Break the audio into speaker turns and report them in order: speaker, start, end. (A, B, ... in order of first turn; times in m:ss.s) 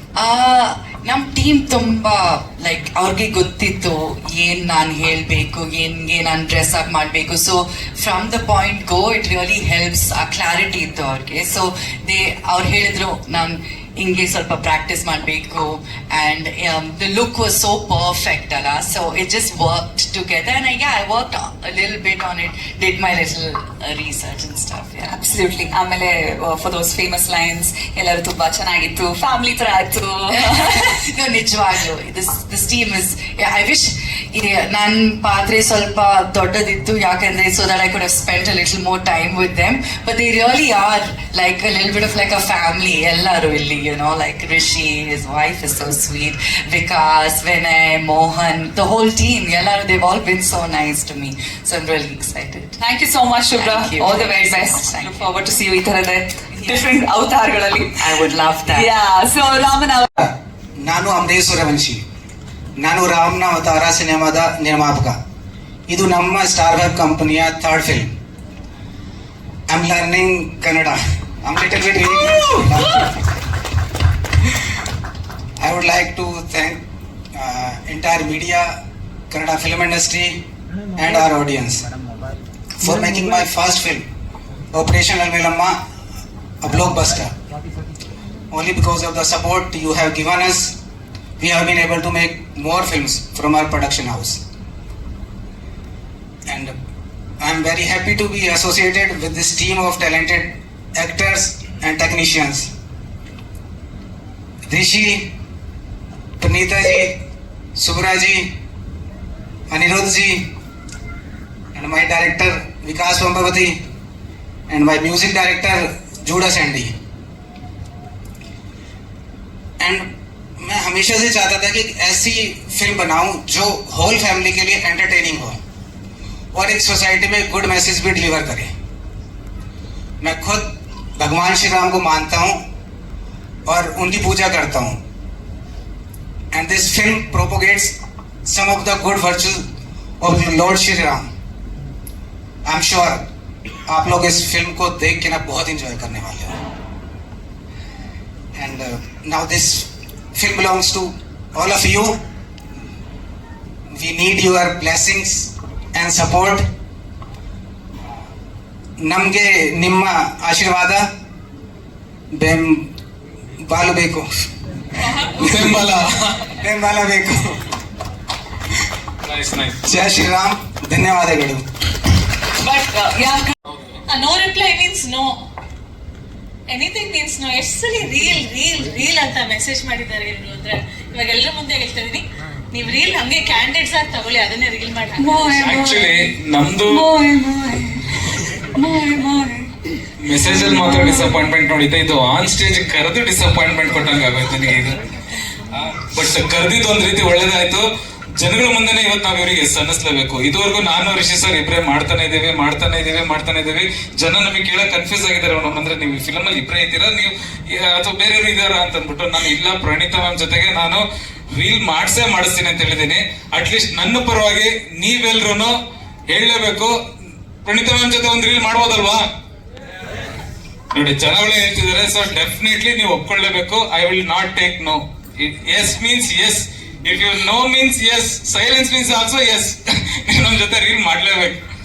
0:00.2-0:25.2 A
0:25.1-0:30.9 B
0:30.3-0:52.8 A
0:52.8-1:00.3 B
0:53.6-0:55.3 A
0:56.6-0:57.0 A
0:57.9-0:58.9 A
1:00.8-1:02.0 C
1:02.8-1:05.2 C
1:05.9-1:08.1 C
1:09.7-1:13.1 C
1:15.6-1:16.8 C
1:17.3-1:18.8 C
1:19.3-1:20.4 C
1:20.9-1:21.9 C
1:22.8-1:24.0 C
1:24.7-1:25.8 C
1:26.6-1:27.3 C
1:28.5-1:30.7 C
1:31.4-1:34.4 C
1:36.5-1:36.7 C
1:37.4-1:42.7 C
1:44.6-1:45.3 C
1:46.4-1:47.2 C
1:47.8-1:48.5 C
1:49.7-1:50.5 C
1:51.7-1:53.8 C
1:54.7-1:56.9 C
1:59.8-2:05.6 C
2:06.5-2:08.7 C
2:10.2-2:12.6 C
2:13.6-2:15.0 C
2:16.5-2:17.9 C
2:18.4-2:19.6 C
2:20.2-2:21.3 C
2:22.6-2:23.2 C
2:23.9-2:26.6 C
2:28.6-2:32.2 C
2:33.9-2:36.7 C
2:39.0-2:41.1 C
2:42.3-2:42.9 C
2:43.6-2:44.3 C
2:45.4-2:46.4 D
2:45.4-2:47.7 C
2:49.2-2:49.8 D
2:49.8-2:51.6 C
2:52.6-2:53.6 B
2:54.1-2:55.4 E
2:56.7-3:05.5 E
3:05.2-3:06.3 B
3:05.6-3:07.1 D
3:06.8-3:09.7 B
3:10.2-3:15.0 D
3:10.5-3:11.4 B
3:15.7-3:35.8 D
3:36.3-3:37.0 D
3:37.6-3:39.3 D
3:40.9-3:51.6 D